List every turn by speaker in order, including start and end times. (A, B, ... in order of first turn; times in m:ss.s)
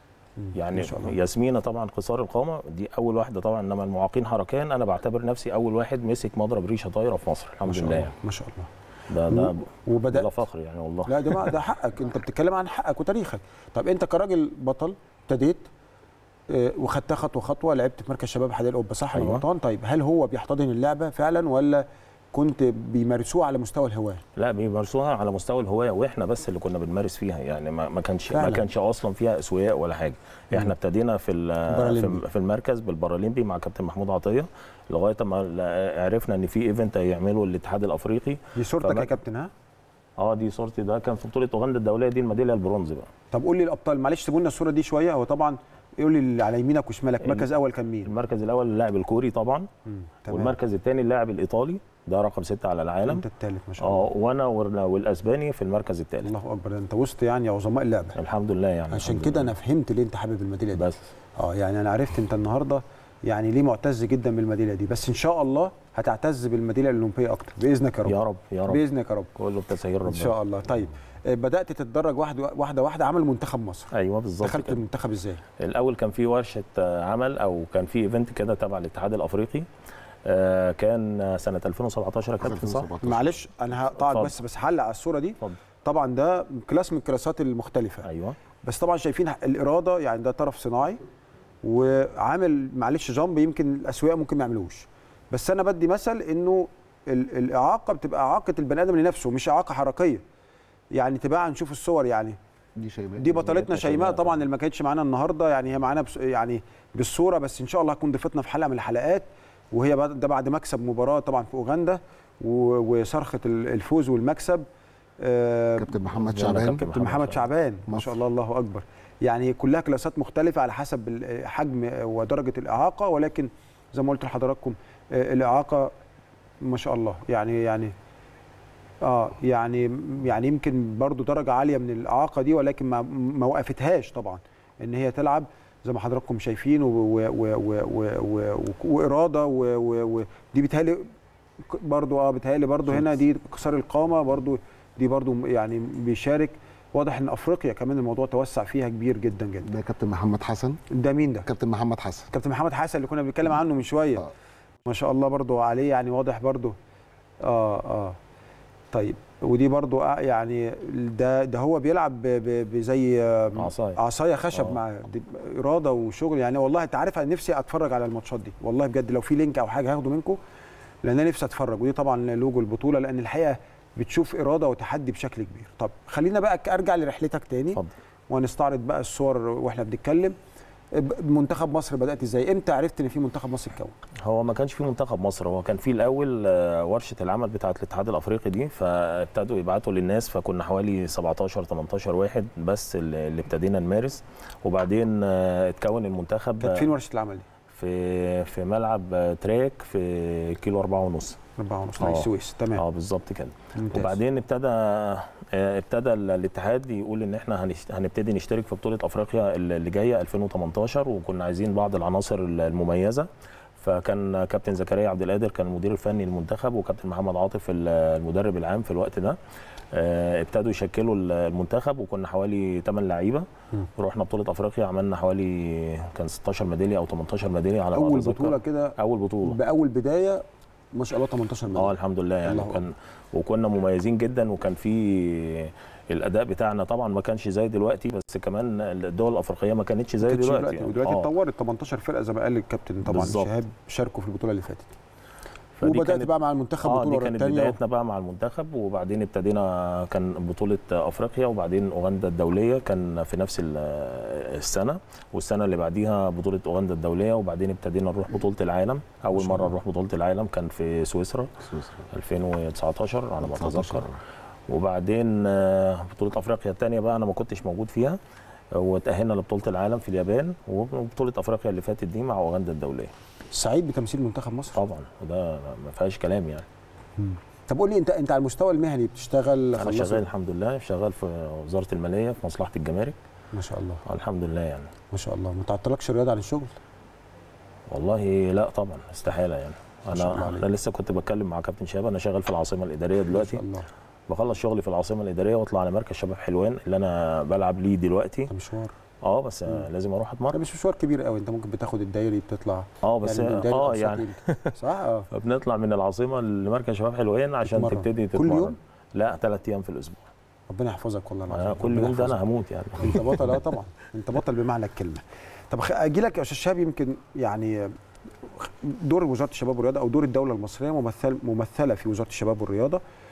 0:00.4-0:01.2 A
0:00.5-0:08.1 B
0:07.6-0:08.7 A
0:09.1-0:11.6 B
0:09.3-0:10.3 A
0:11.0-0:15.6 A
0:16.5-0:24.2 A
0:19.1-0:19.4 B
0:24.4-0:39.1 B
0:28.3-0:28.6 A
0:31.7-0:32.2 A
0:38.5-0:39.5 A
0:40.2-0:43.1 B
0:43.3-0:48.1 A
0:47.2-0:47.5 B
0:48.0-0:49.7 B
0:49.8-0:50.6 A
0:50.3-0:53.2 B
0:53.0-0:54.1 A
0:53.8-0:56.3 B
0:56.2-0:58.2 A
0:58.2-0:59.6 B
0:58.9-1:09.3 A
1:00.7-1:01.0 B
1:08.0-1:08.8 B
1:09.4-1:10.4 B
1:10.0-1:15.4 A
1:13.9-1:14.8 B
1:15.6-1:19.6 B
1:20.2-1:22.9 B
1:22.4-1:23.4 C
1:23.0-1:28.1 A
1:23.8-1:24.4 B
1:28.0-1:28.4 B
1:28.6-1:31.0 A
1:31.6-1:40.2 A
1:40.9-1:42.4 A
1:42.8-1:43.6 C
1:43.2-1:54.6 A
1:43.5-1:44.4 B
1:55.2-1:55.9 A
1:55.8-1:56.8 C
1:56.2-1:57.4 B
1:56.5-2:05.9 A
2:06.6-2:07.9 A
2:09.0-2:21.1 A
2:21.7-2:29.7 A
2:29.6-2:30.8 C
2:30.9-2:31.5 A
2:31.4-2:32.3 C
2:32.3-2:34.3 A
2:34.8-2:36.7 A
2:37.4-2:38.2 A
2:38.9-2:50.4 A
2:43.6-2:44.0 B
2:44.5-2:44.8 B
2:51.0-3:00.3 A
3:00.9-3:04.0 A
3:04.2-3:16.9 B
3:16.6-3:17.4 A
3:17.7-3:21.4 B
3:21.6-3:22.8 A
3:22.0-3:33.3 B
3:23.7-3:24.2 A
3:33.8-3:39.4 B
3:39.9-3:43.4 B
3:44.0-3:49.6 B
3:47.9-3:50.4 A
3:50.9-3:52.8 A
3:51.7-4:01.3 B
4:00.2-4:04.9 A
4:03.0-4:03.5 B
4:05.8-4:06.3 B
4:05.8-4:07.8 A
4:06.8-4:21.5 B
4:19.4-4:19.7 C
4:21.7-4:22.0 C
4:22.1-4:24.1 B
4:23.4-4:24.2 C
4:24.7-4:28.2 B
4:28.8-4:33.1 B
4:33.5-4:34.8 A
4:34.7-4:36.6 B
4:37.2-4:40.2 A
4:39.8-4:43.2 B
4:43.5-4:44.0 A
4:44.0-4:44.9 B
4:45.1-4:46.8 A
4:47.9-4:53.6 B
4:50.1-4:50.6 A
4:53.3-4:53.9 A
4:54.3-4:58.5 B
4:58.5-4:58.9 A
4:59.2-5:00.6 B
5:00.5-5:05.3 A
5:03.0-5:04.8 B
5:05.3-5:10.2 B
5:07.6-5:08.8 A
5:10.7-5:12.4 A
5:11.5-5:13.4 B
5:13.0-5:17.9 A
5:18.4-5:23.0 A